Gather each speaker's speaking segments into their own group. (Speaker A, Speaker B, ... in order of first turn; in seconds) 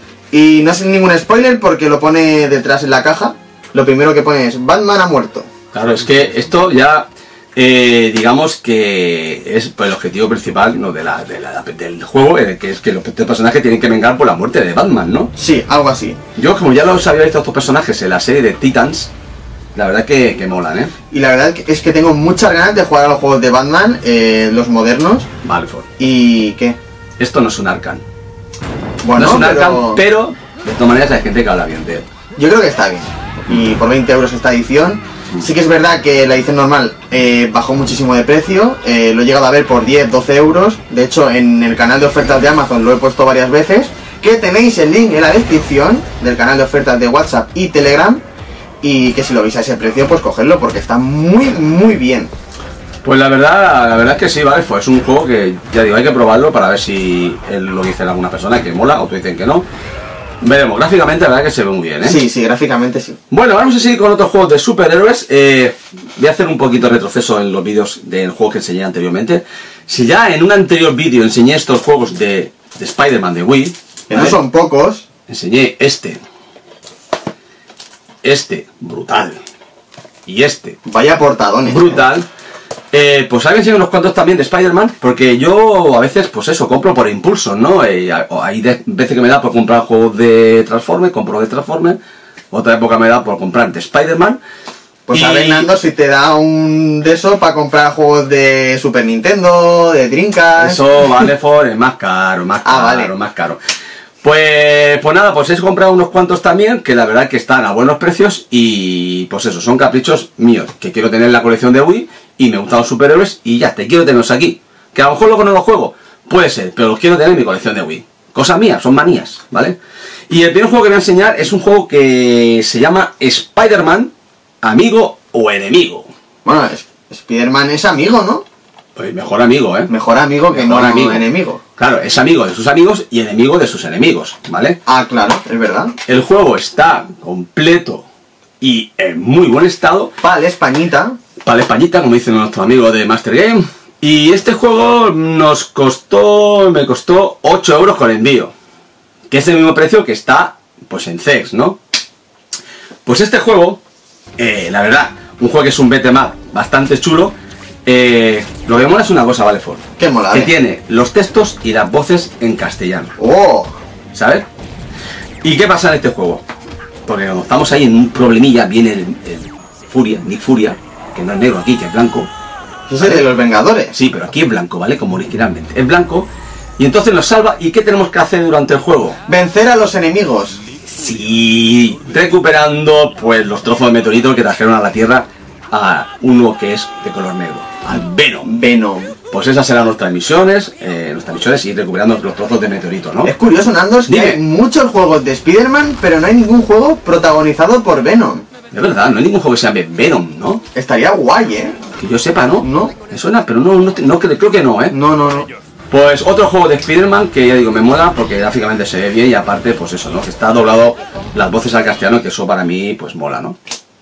Speaker A: 0.3-5.5, 15.3-16.2, 21.1-25.3, 26.0-26.8, 29.0-30.0, 32.4-48.2, 48.8-52.3, 62.0-63.2, 74.1-75.0, 80.8-82.0, 95.1-100.8, 102.6-103.1, 126.4-128.4, 129.9-131.6, 134.8-135.9, 140.2-141.2, 160.0-160.5, 163.2-163.7, 172.9-173.9, 179.3-180.6, 188.4-189.1, 193.2-198.4, 200.7-201.8, 202.6-202.9, 204.9-205.5
Speaker B: 5.7-15.3, 16.4-19.1, 19.7-20.9, 25.4-25.9, 27.2-28.0, 29.1-32.1, 53.0-59.7, 60.4-62.2, 63.3-74.4, 75.3-76.2, 78.2-79.4, 80.3-80.8, 81.7-82.2, 82.9-92.0, 92.5-94.4, 95.1-95.7, 100.6-103.6, 104.2-119.8, 120.3-126.1, 128.9-129.9, 130.5-131.2, 131.8-134.8, 136.1-138.0, 138.6-140.1, 141.4-148.5, 149.3-151.8, 153.1-153.8, 154.4-163.1, 164.1-164.4, 165.4-166.4, 167.1-172.3, 173.0-173.2, 173.9-179.2, 180.9-188.5, 189.3-193.3, 194.1-194.4, 198.7-200.6, 202.0-204.9, 205.9-213.6